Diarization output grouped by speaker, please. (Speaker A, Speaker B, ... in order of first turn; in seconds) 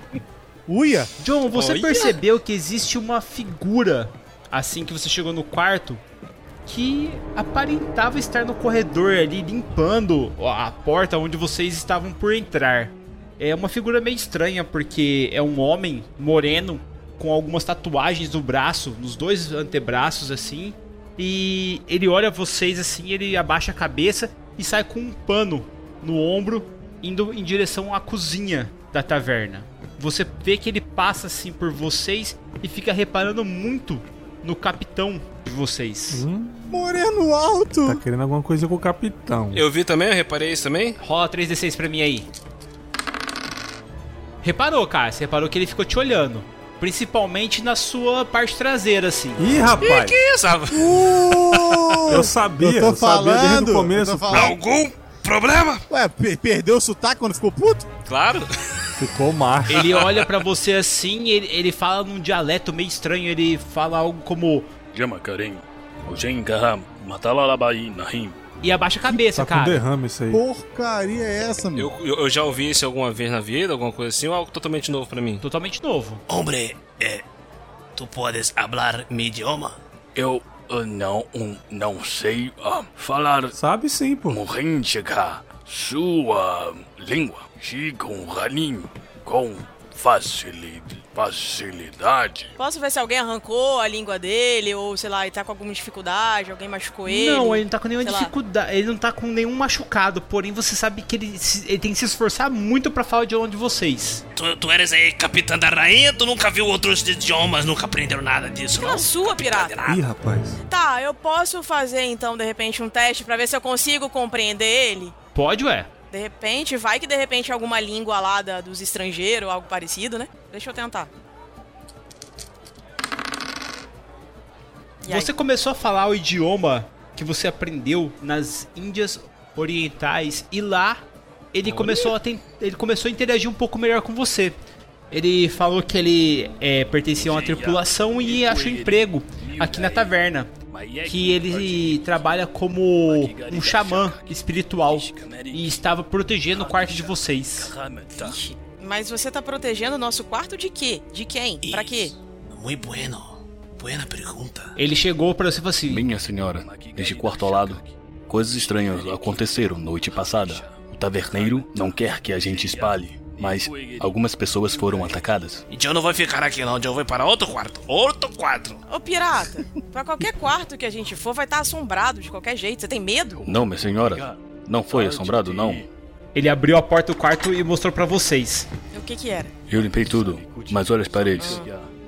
Speaker A: 0.7-1.1, 36.7-38.0, 50.7-54.6, 55.9-57.9, 70.3-71.9
Speaker B: 1.2-6.0, 6.7-36.2, 41.0-42.3, 44.4-49.7, 59.7-64.7, 68.6-69.8, 75.4-76.2, 97.1-104.2, 115.3-115.9, 125.1-134.6, 135.1-140.5, 141.1-147.7, 154.8-156.1, 176.3-178.7
Speaker C: 1.6-2.0, 39.5-41.0, 49.8-50.9, 51.5-51.9, 54.3-55.8, 58.1-58.9, 71.8-75.4, 76.3-77.2, 78.0-79.8, 104.3-110.0, 151.6-154.7, 165.7-168.8
Speaker D: 36.1-36.8, 37.8-39.7, 49.4-50.2, 52.1-54.5, 59.0-59.9, 69.2-70.4, 83.5-84.4, 109.9-110.6
Speaker E: 64.9-68.4, 80.2-83.6, 84.3-92.5, 139.4-139.9, 140.7-142.2, 143.2-144.3, 144.9-145.6, 146.6-147.1, 147.6-148.4, 155.9-165.6, 173.4-175.9, 179.7-181.7
Speaker F: 92.6-98.3, 108.7-109.9, 110.7-115.2, 116.1-121.1, 125.0-125.3, 148.2-152.1, 168.9-173.6, 178.9-179.5, 181.4-181.7